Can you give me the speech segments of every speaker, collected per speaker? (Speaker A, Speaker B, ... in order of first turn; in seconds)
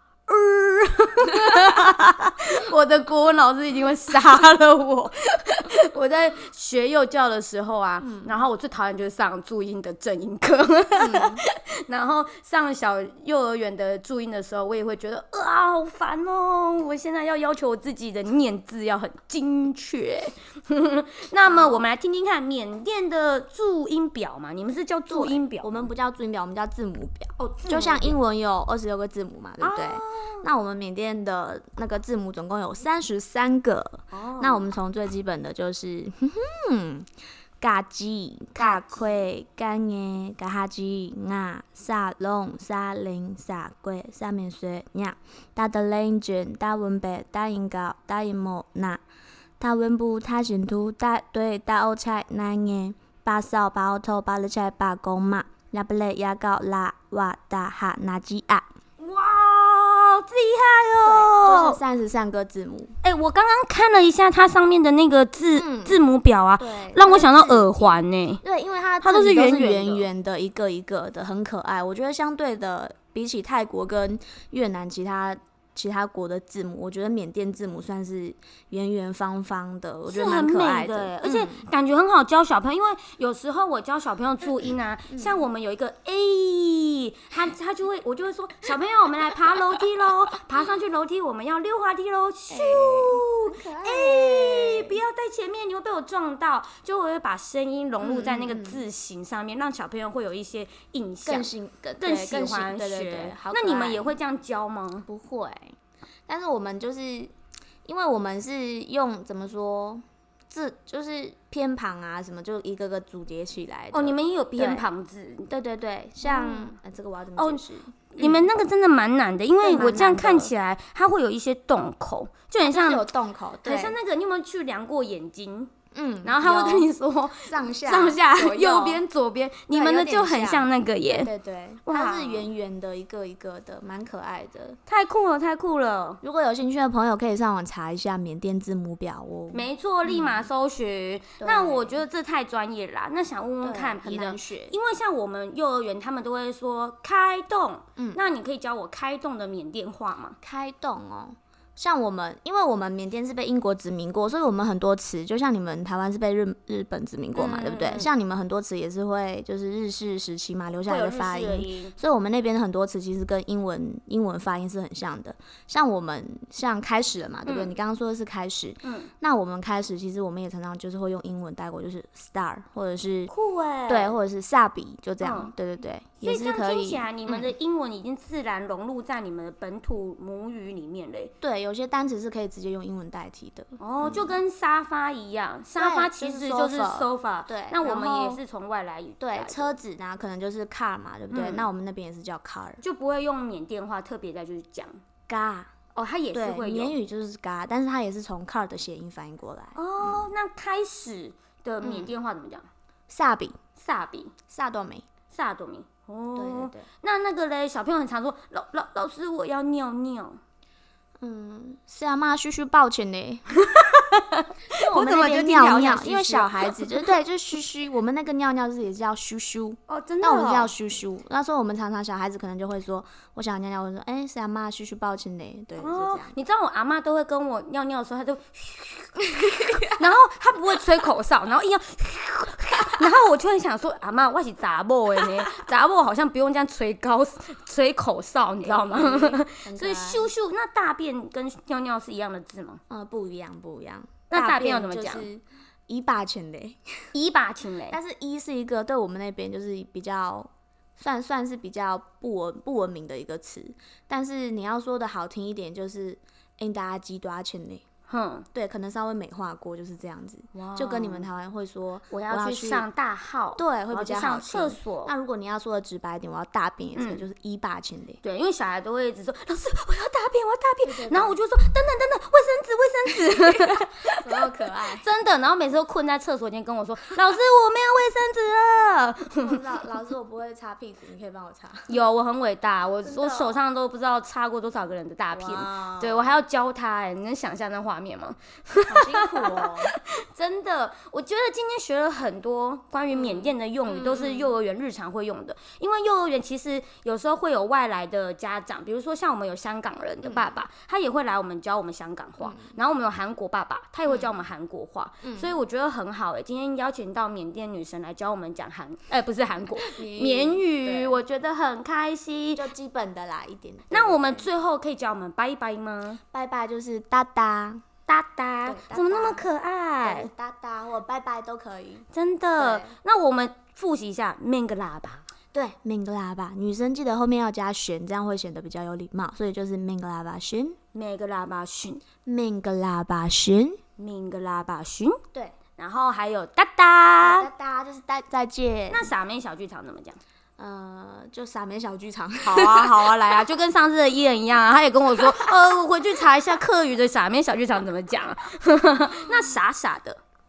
Speaker A: 0.3-25.9, 27.4-28.2, 29.6-30.5, 34.1-34.7, 38.6-39.1, 59.0-61.8, 63.0-68.4, 69.0-70.1, 80.1-105.1, 113.9-115.5, 116.2-116.8, 117.4-123.1, 123.6-125.7, 126.2-131.3, 131.9-132.5, 134.9-136.2, 139.5-150.4, 157.3-158.1, 160.9-161.9, 167.4-167.8, 168.8-169.1, 173.3-174.2, 175.2-175.5, 176.2-181.3, 183.8-189.8, 191.3-191.7, 192.8-195.0, 195.9-197.0, 199.8-202.7, 203.8-204.3, 205.3-210.4, 213.6-217.1, 219.9-220.7, 225.8-242.8, 244.3-245.3, 247.1-248.0, 258.1-258.5, 260.5-261.3, 262.1-265.1, 266.9-267.3, 268.2-274.2, 274.9-279.9, 281.9-312.7, 313.9-316.2, 318.1-320.3, 322.1-325.3, 330.9-332.0, 334.0-335.2, 335.8-337.5, 338.9-340.2, 342.4-350.2
Speaker B: 8.0-8.4, 11.0-11.4, 21.4-21.9, 25.1-37.1, 37.6-49.0, 49.6-58.7, 61.0-63.0, 65.5-66.0, 66.6-81.7, 85.1-85.4, 92.5-95.0, 98.0-98.8, 101.3-104.2, 105.1-105.8, 106.3-107.3, 107.8-114.8, 115.5-118.5, 119.6-120.5, 122.6-124.0, 125.9-129.0, 129.7-134.8, 136.2-140.5, 141.4-142.0, 143.6-144.8, 150.4-173.3, 173.9-177.5, 181.4-184.4, 185.8-188.4, 189.2-192.8, 195.3-195.7, 196.3-200.3, 201.8-202.1, 203.1-203.6, 204.5-205.1, 206.4-206.9, 211.2-213.5, 214.7-226.3, 238.6-240.3, 242.9-247.0, 247.9-257.8, 258.5-262.9, 263.6-268.2, 270.9-271.4, 273.3-275.1, 279.4-281.9, 283.0-283.6, 285.3-286.3, 288.9-289.9, 293.1-294.5, 300.2-300.6, 302.4-302.8, 305.2-305.6, 309.8-311.2, 312.6-314.5, 316.3-317.8, 318.6-319.4, 320.0-323.0, 325.5-330.8, 332.2-333.8, 337.2-339.1, 340.6-343.1